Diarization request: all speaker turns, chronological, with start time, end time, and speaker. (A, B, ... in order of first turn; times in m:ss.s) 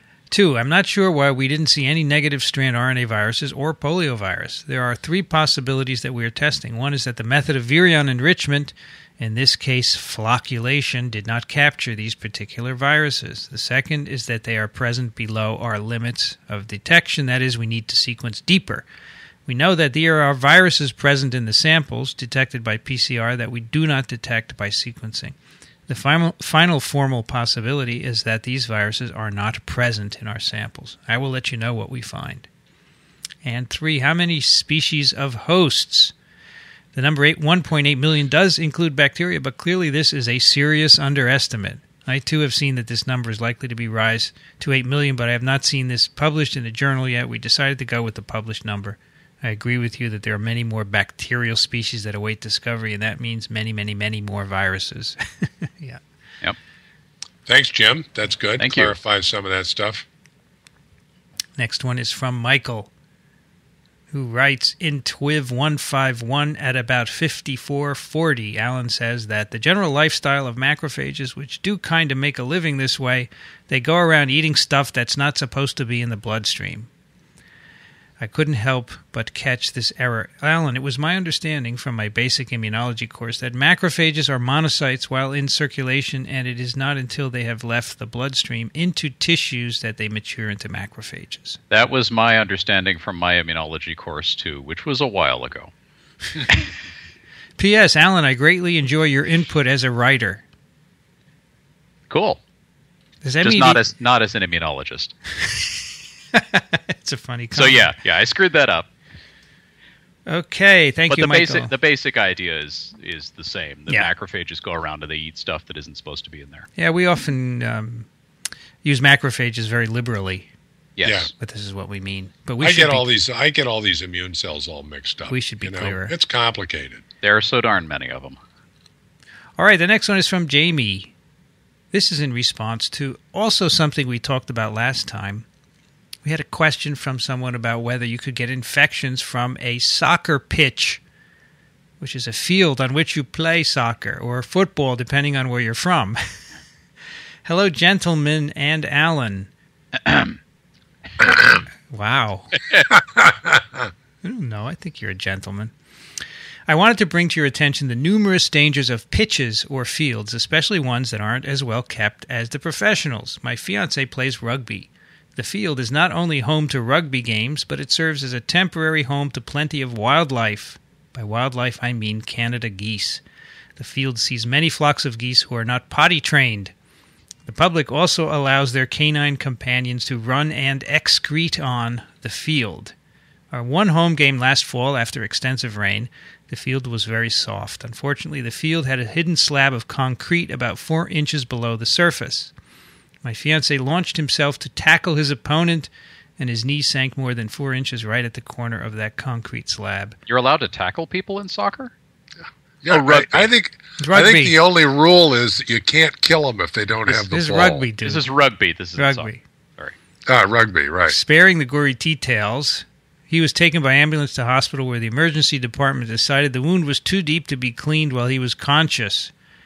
0:00.3-0:18.8 A
0:19.4-0:25.4 A
0:25.9-0:32.5 A
0:33.4-0:36.1 A
0:36.9-0:56.0 A
0:57.4-1:00.0 B
0:58.6-0:58.9 C
1:01.6-1:02.9 A
1:04.1-1:16.9 A
1:18.2-1:31.6 A
1:31.7-1:35.7 C
1:37.6-1:40.4 A
1:42.1-1:42.4 C
1:43.2-1:43.8 A
1:43.4-1:45.1 C
1:45.4-1:45.8 A
1:46.3-1:47.9 A
1:47.5-1:48.9 C
1:50.3-1:51.7 A
1:51.1-1:56.7 C
1:56.8-1:58.1 A
1:58.8-2:00.5 A
2:01.0-2:01.3 C
2:01.0-2:01.3 B
2:01.4-2:03.0 A
2:02.6-2:07.0 B
2:05.3-2:06.1 A
2:07.2-2:08.4 C
2:09.6-2:11.1 A
2:11.9-2:15.4 A
2:16.2-2:21.0 A
2:22.0-2:26.4 A
2:27.4-2:29.5 A
2:30.0-2:30.4 C
2:31.9-2:32.6 A
2:32.9-2:33.9 B
2:34.2-2:35.7 A
2:36.7-2:53.2 A
2:53.8-2:56.7 A
2:57.4-3:02.9 A
3:03.5-3:12.5 A
3:13.2-3:20.2 A
3:20.3-3:21.9 C
3:22.8-3:27.9 B
3:22.9-3:23.5 C
3:24.0-3:24.6 A
3:27.1-3:28.2 A
3:28.0-3:29.9 C
3:29.0-3:29.4 A
3:30.3-3:31.2 B
3:31.1-3:39.3 A